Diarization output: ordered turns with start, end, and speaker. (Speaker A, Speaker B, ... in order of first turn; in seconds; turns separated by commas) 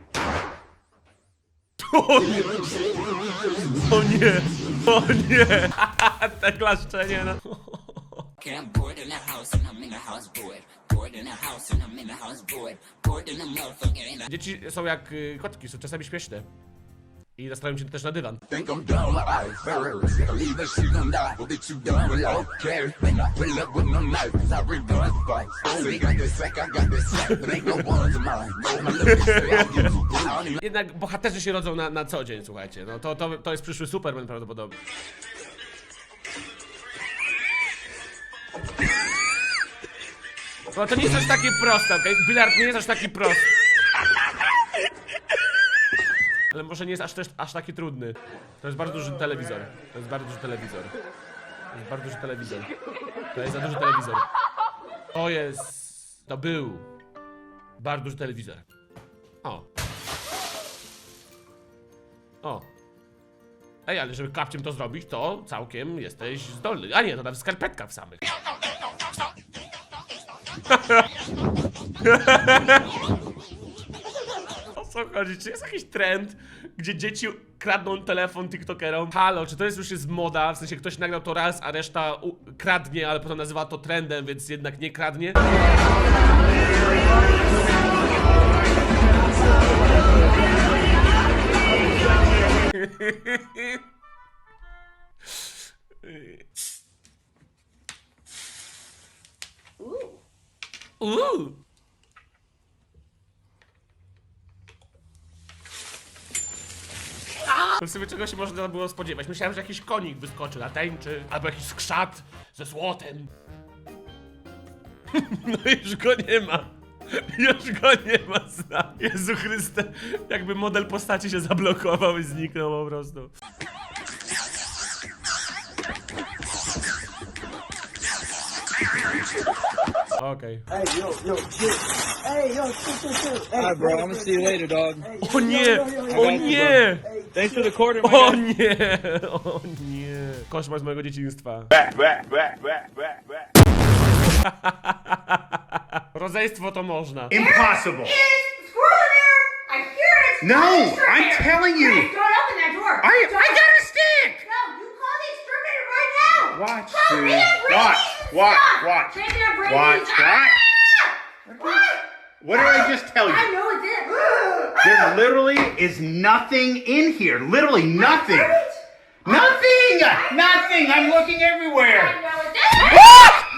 Speaker A: 1.8-2.7, Speaker A: 3.7-8.3, Speaker B: 8.4-14.1, Speaker C: 8.4-14.2, Speaker A: 14.3-16.5, Speaker A: 17.4-18.4, Speaker B: 18.5-29.1, Speaker C: 20.3-20.8, Speaker C: 22.0-23.8, Speaker C: 24.3-25.7, Speaker A: 28.9-30.0, Speaker A: 30.6-34.8, Speaker A: 40.7-43.5, Speaker A: 46.5-50.9, Speaker A: 51.7-52.7, Speaker A: 53.3-54.3, Speaker A: 55.1-56.9, Speaker A: 57.8-58.6, Speaker A: 63.9-68.2, Speaker A: 70.7-71.1, Speaker A: 72.0-72.9, Speaker A: 74.7-85.5, Speaker A: 92.7-93.8, Speaker A: 96.0-96.4, Speaker A: 101.0-101.6, Speaker A: 107.5-113.3, Speaker A: 115.1-123.3, Speaker A: 130.2-130.6, Speaker D: 133.5-135.2, Speaker A: 135.2-137.1, Speaker D: 135.8-138.4, Speaker A: 138.0-141.7, Speaker A: 144.4-147.4, Speaker E: 147.3-148.2, Speaker F: 147.3-153.8, Speaker E: 150.4-152.1, Speaker E: 153.0-154.4, Speaker F: 154.3-162.0, Speaker E: 156.5-160.6, Speaker E: 161.5-161.8, Speaker E: 162.4-163.5, Speaker F: 162.5-165.2, Speaker E: 164.8-168.6, Speaker F: 167.9-171.1, Speaker E: 169.2-172.2, Speaker F: 171.9-173.3